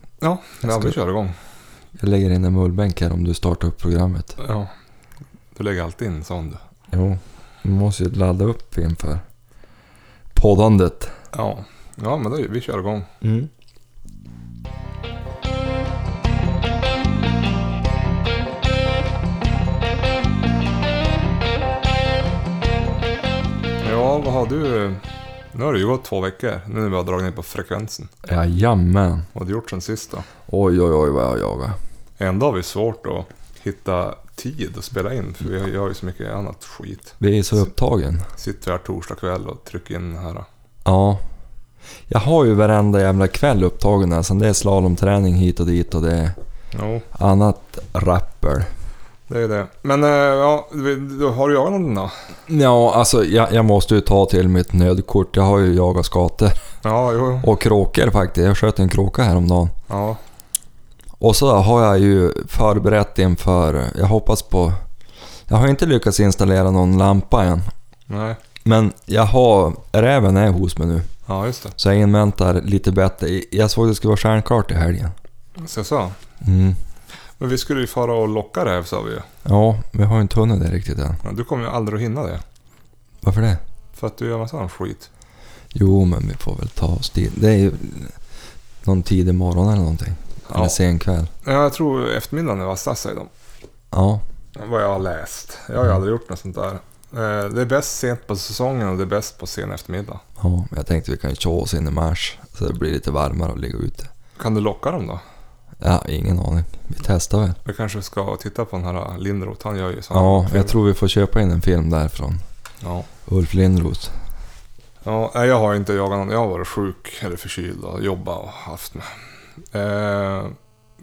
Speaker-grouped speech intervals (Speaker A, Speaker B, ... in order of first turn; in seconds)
Speaker A: 0.2-1.4, 4.4-4.7, 5.5-6.6, 11.3-13.1, 23.8-28.1, 29.3-30.3, 32.2-37.2, 38.4-40.5, 46.7-47.1, 49.3-52.1, 56.8-57.5, 59.9-60.2, 68.1-68.4, 71.3-71.8, 75.6-76.2, 77.4-79.3, 81.2-82.4, 84.0-85.1, 90.5-90.8, 91.4-93.3, 94.6-100.2, 104.4-105.2, 107.7-110.8, 112.8-113.1, 115.0-119.2, 119.7-120.5
Speaker B: 0.6-1.0, 2.0-4.4, 6.9-9.2, 10.3-11.1, 13.2-13.5, 28.2-29.3, 30.5-31.8, 37.2-38.3, 40.9-41.2, 42.1-46.4, 47.1-48.7, 52.5-56.6, 57.4-59.7, 61.2-64.8, 65.5-67.7, 68.6-71.1, 71.8-75.2, 76.4-76.8, 79.5-81.2, 83.2-83.6, 85.7-88.2, 88.8-91.3, 93.9-94.2, 100.4-104.1, 105.8-107.6, 110.1-112.4, 113.3-114.1